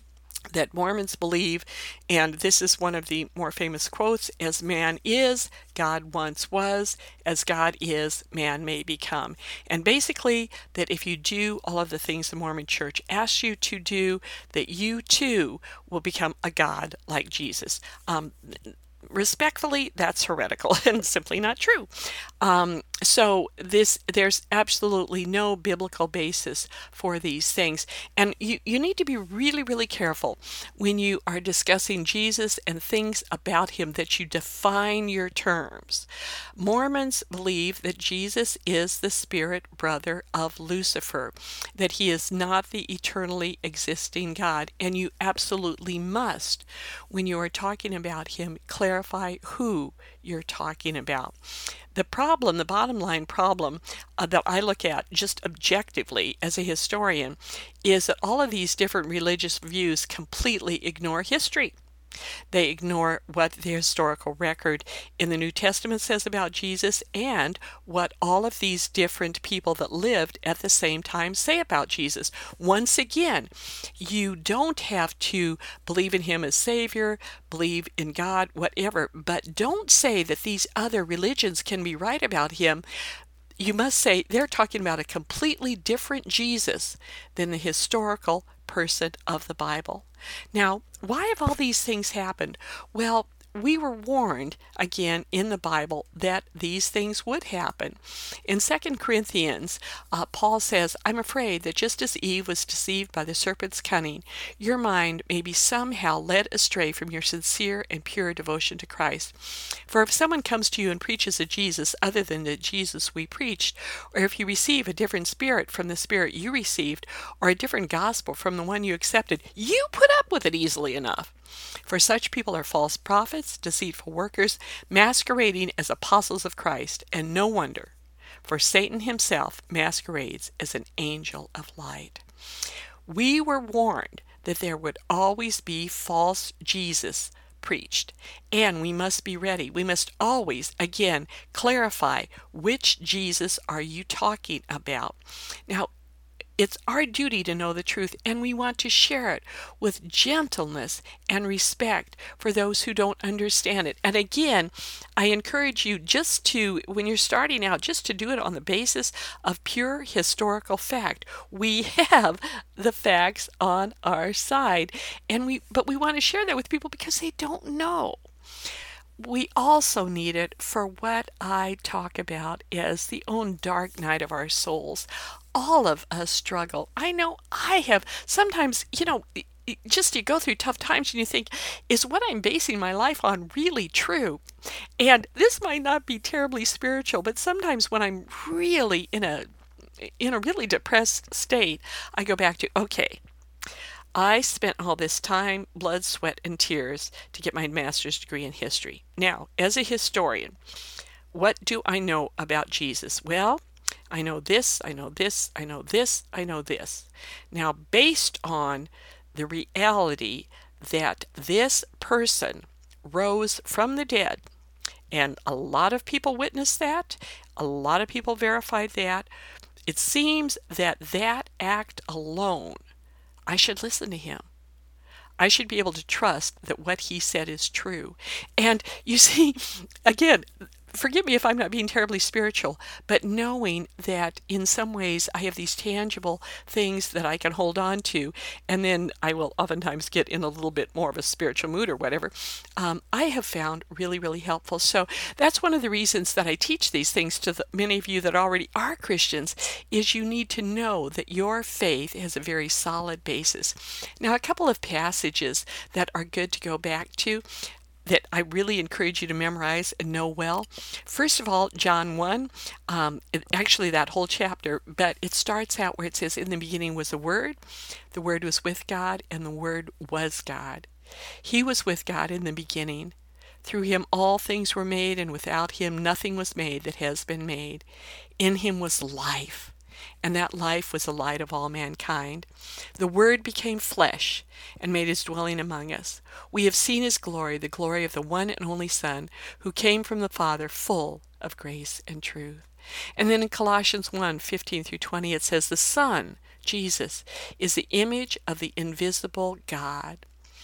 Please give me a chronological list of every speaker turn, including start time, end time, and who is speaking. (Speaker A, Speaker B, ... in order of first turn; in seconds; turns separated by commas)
Speaker A: 0.5-51.4, Speaker A: 51.9-61.7, Speaker A: 62.5-82.8, Speaker A: 83.6-121.3, Speaker A: 121.8-127.9, Speaker A: 128.4-132.2, Speaker A: 133.1-145.9, Speaker A: 146.6-168.2, Speaker A: 169.2-184.4, Speaker A: 185.0-189.5, Speaker A: 190.0-193.2, Speaker A: 194.1-200.6, Speaker A: 201.3-214.4, Speaker A: 215.1-219.3, Speaker A: 219.8-222.8, Speaker A: 223.5-224.4, Speaker A: 225.4-257.4, Speaker A: 258.0-267.6, Speaker A: 268.1-270.9, Speaker A: 271.4-277.8, Speaker A: 278.4-300.2